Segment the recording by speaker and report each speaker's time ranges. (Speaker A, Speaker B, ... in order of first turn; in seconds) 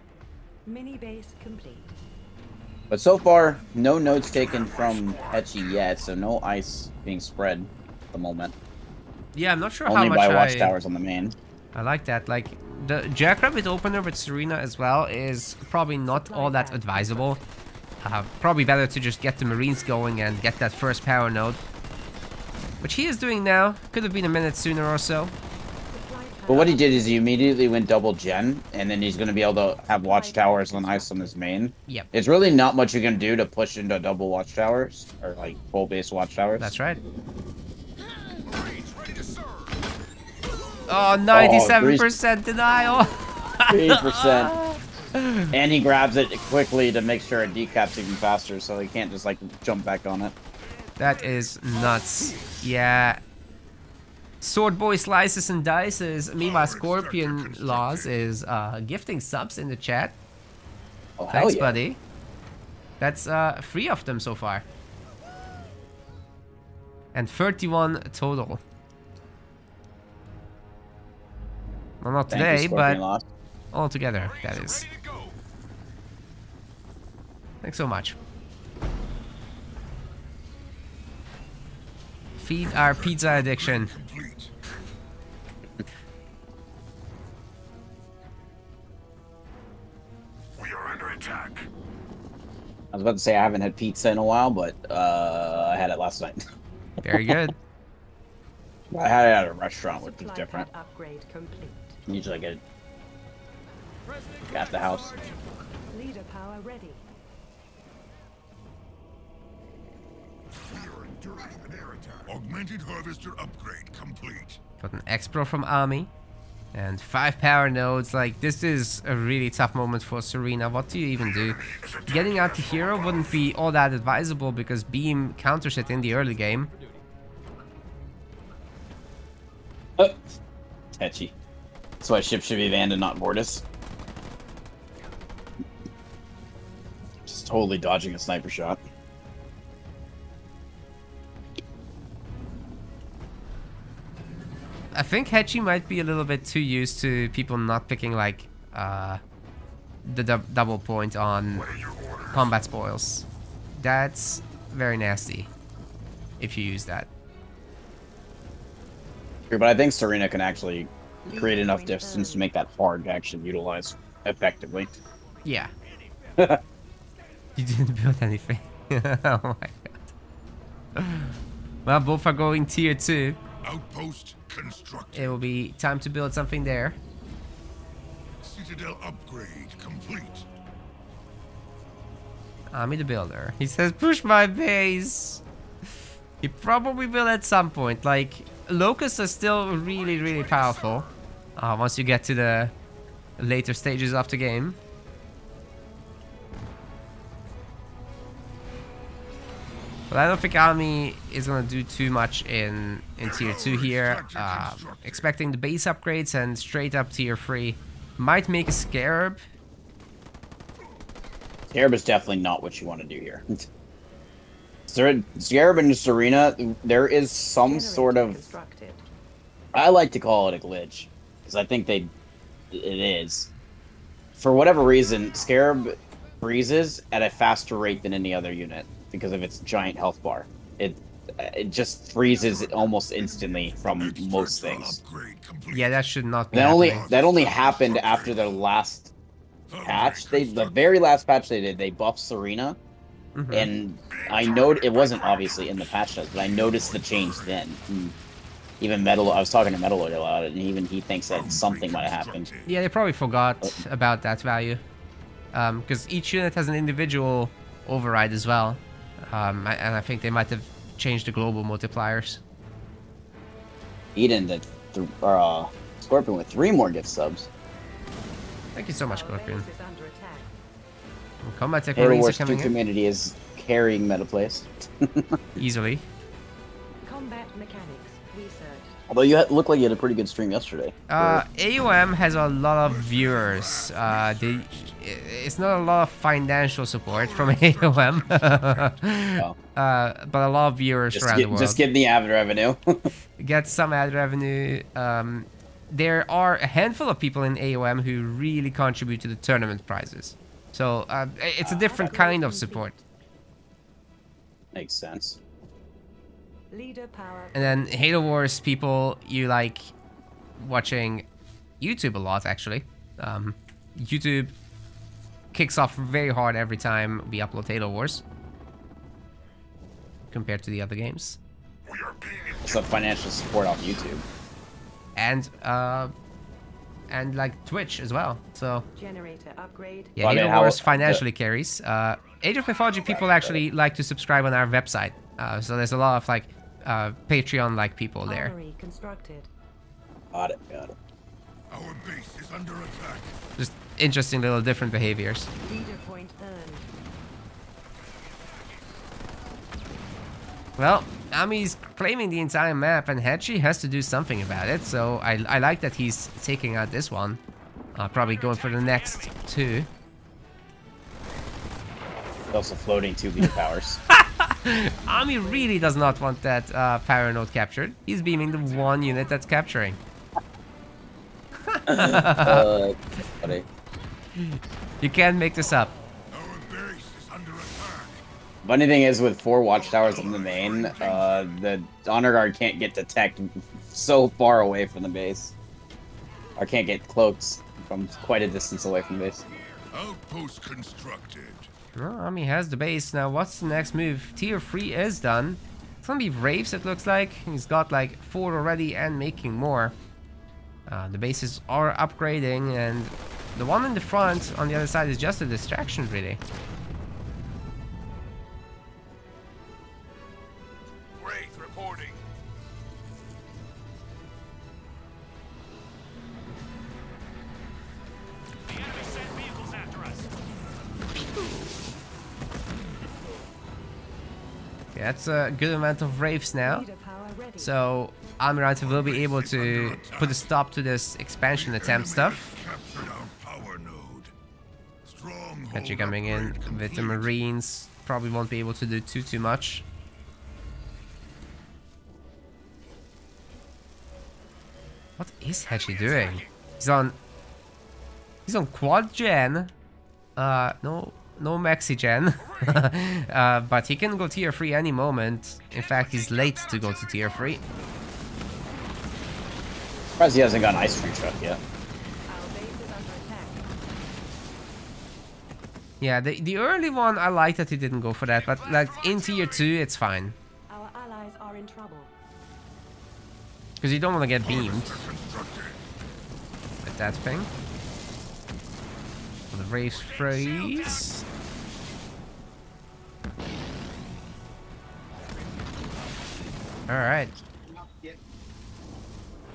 Speaker A: 0.7-1.9, 16.1-17.4, 25.9-27.3, 30.0-31.3, 100.0-102.0, 105.9-107.0, 161.2-162.5, 217.6-219.1, 269.0-270.5, 277.0-279.0, 301.7-303.0, 306.7-307.9, 328.9-330.3, 338.2-339.5, 345.6-346.9, 365.2-365.7, 426.6-427.8, 462.3-463.7, 470.7-472.1
Speaker B: 2.9-8.5, 9.9-11.4, 26.5-36.7, 41.3-42.1, 43.7-44.5, 45.5-50.3, 61.2-61.8, 72.3-73.2, 92.9-96.5, 97.1-97.3, 98.9-100.7, 102.1-102.6, 104.5-105.3, 131.0-131.3, 132.0-133.6, 137.3-138.8, 159.5-164.9, 211.7-213.6, 214.9-218.4, 219.7-222.1, 222.7-223.5, 224.4-235.0, 236.5-239.1, 239.8-242.8, 243.5-248.2, 248.8-252.5, 264.1-267.5, 272.0-275.4, 279.1-281.4, 291.1-293.1, 301.6-302.0, 304.7-305.4, 322.6-324.2, 330.2-331.2, 333.0-333.6, 340.3-340.9, 362.5-364.0, 371.9-373.7, 378.6-385.5, 386.6-389.4, 460.2-461.6
Speaker C: 4.1-6.1, 38.4-39.7, 47.5-47.8, 51.0-52.7, 56.4-58.1, 74.2-75.3, 82.7-84.5, 90.6-91.7, 110.5-114.6, 121.2-123.5, 151.6-152.5, 173.6-175.4, 178.4-180.5, 189.8-191.2, 203.2-205.3, 232.3-236.0, 236.7-238.6, 239.7-240.8, 244.1-247.7, 251.3-252.8, 282.8-284.9, 287.1-289.0, 321.9-322.9, 341.7-343.4, 358.2-359.3, 368.4-369.2, 376.3-378.2, 379.7-381.6, 389.9-391.7, 411.2-412.2, 418.7-420.2, 428.8-430.5, 431.5-434.3, 435.1-437.3, 445.7-446.5, 452.4-452.8, 455.7-457.7, 468.8-469.4, 474.4-475.8, 480.0-481.0
Speaker D: 9.3-10.8, 11.7-17.4, 18.0-21.6, 22.8-25.4, 36.6-37.0, 40.9-45.6, 51.0-53.2, 54.4-60.2, 61.3-62.0, 63.0-64.7, 67.1-68.6, 72.0-73.0, 73.7-74.9, 77.6-78.2, 82.4-83.9, 97.0-97.6, 114.8-116.1, 116.7-126.7, 144.9-149.2, 150.0-151.7, 152.3-155.5, 156.4-157.1, 165.4-165.7, 167.6-170.1, 171.0-173.4, 175.1-177.0, 182.7-185.4, 186.4-192.7, 193.4-194.8, 200.1-209.4, 235.7-237.1, 243.3-243.7, 252.7-254.8, 255.5-262.4, 268.8-269.7, 271.4-272.8, 275.6-276.1, 281.1-291.8, 293.4-303.0, 307.5-309.9, 310.6-311.3, 311.8-314.6, 315.5-318.2, 320.3-321.4, 325.2-326.1, 327.1-328.9, 330.2-338.5, 343.6-345.5, 350.8-357.4, 357.9-359.9, 364.1-370.0, 371.7-372.7, 374.4-375.9, 391.9-399.9, 400.9-406.4, 421.3-421.8, 424.9-426.9, 427.6-432.4, 435.7-439.9, 445.2-447.2, 448.5-449.7, 450.4-457.6, 466.0-470.4, 473.8-475.0, 476.8-477.5, 479.5-481.2, 486.9-487.3